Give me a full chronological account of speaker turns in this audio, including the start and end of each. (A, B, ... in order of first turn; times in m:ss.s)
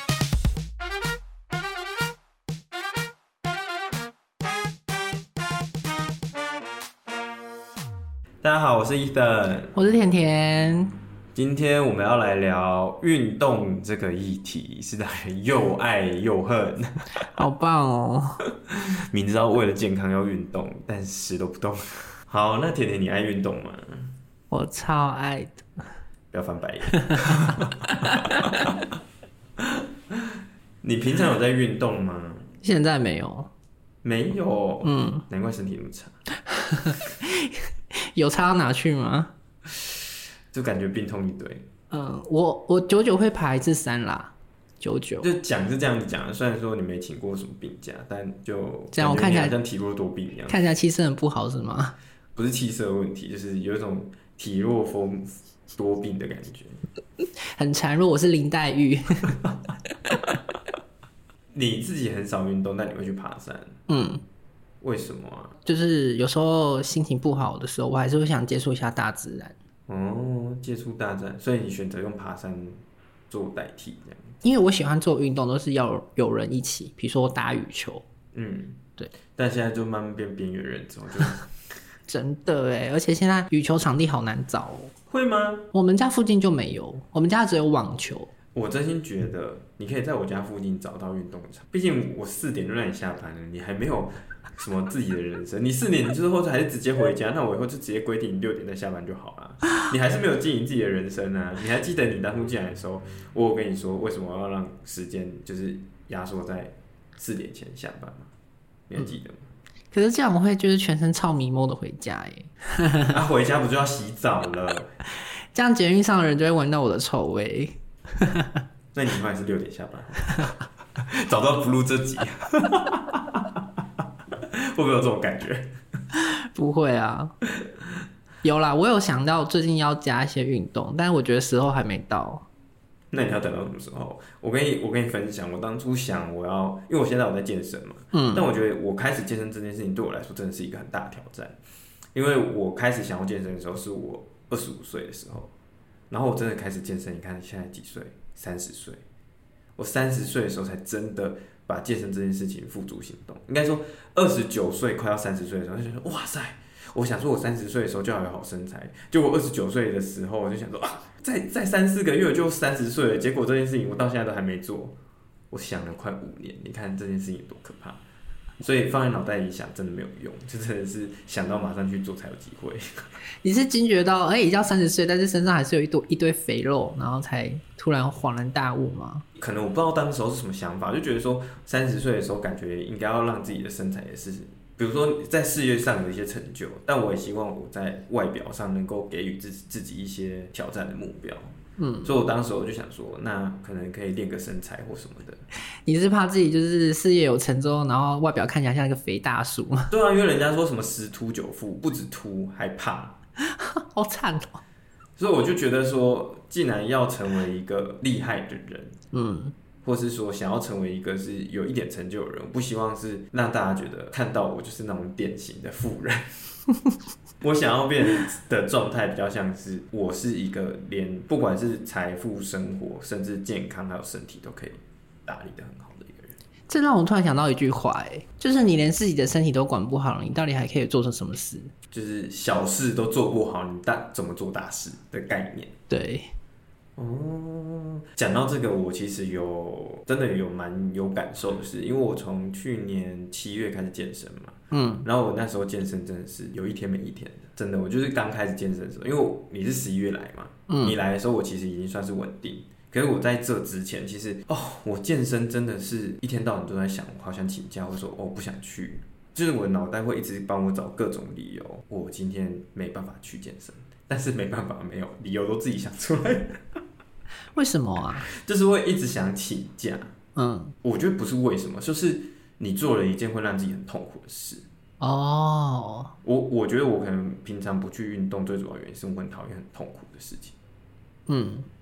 0:08.4-0:09.8 A
0:09.7-0:10.9 B
0:11.3-0:17.1 A
0:17.3-0:18.4 B
0:18.7-0:24.1 A
0:24.5-0:25.8 B
0:26.3-0:28.8 A
0:28.1-0:28.5 B
0:29.6-0:32.5 A
0:32.6-0:33.5 B
0:34.0-0:36.2 A
0:34.8-0:35.2 B
0:36.4-0:39.3 B
0:40.5-0:41.7 A
0:41.9-0:45.3 B
0:45.2-0:50.6 A
0:48.9-0:49.6 B
0:50.5-0:52.0 B
0:52.3-0:56.8 A
0:57.2-0:59.4 B
1:01.5-1:03.8 A
1:03.9-1:04.2 B
1:04.8-1:05.6 A
1:05.6-1:09.6 B
1:09.9-1:14.4 A
1:14.4-1:18.0 B
1:18.3-1:21.4 A
1:22.1-1:24.9 B
1:25.1-1:25.7 A
1:25.7-1:28.3 B
1:28.5-1:48.3 A
1:48.9-1:49.5 A
1:49.9-1:53.2 B
1:53.1-1:54.9 A
1:55.2-1:58.6 B
1:58.9-2:03.6 A
2:04.3-2:05.7 A
2:06.1-2:07.3 B
2:08.4-2:12.4 B
2:13.1-2:21.6 A
2:18.1-2:18.4 B
2:22.1-2:25.5 A
2:26.1-2:29.0 A
2:29.8-2:45.0 A
2:45.5-2:48.0 A
2:48.6-2:52.8 A
2:53.4-2:59.2 B
2:59.3-3:15.4 A
3:11.8-3:12.1 B
3:15.8-3:19.9 B
3:19.9-3:23.2 A
3:23.4-3:24.6 B
3:25.2-3:29.0 A
3:29.1-3:29.5 B
3:29.8-3:36.3 A
3:37.4-3:46.4 A
3:46.7-3:51.7 B
3:51.9-3:55.7 A
3:55.9-3:56.3 B
3:57.0-4:26.6 A
4:04.7-4:05.0 B
4:10.7-4:11.0 B
4:27.5-4:28.2 B
4:28.3-4:30.1 A
4:30.4-4:30.7 B
4:30.8-4:34.6 A
4:35.0-4:36.1 B
4:36.2-4:40.6 A
4:41.3-4:41.7 B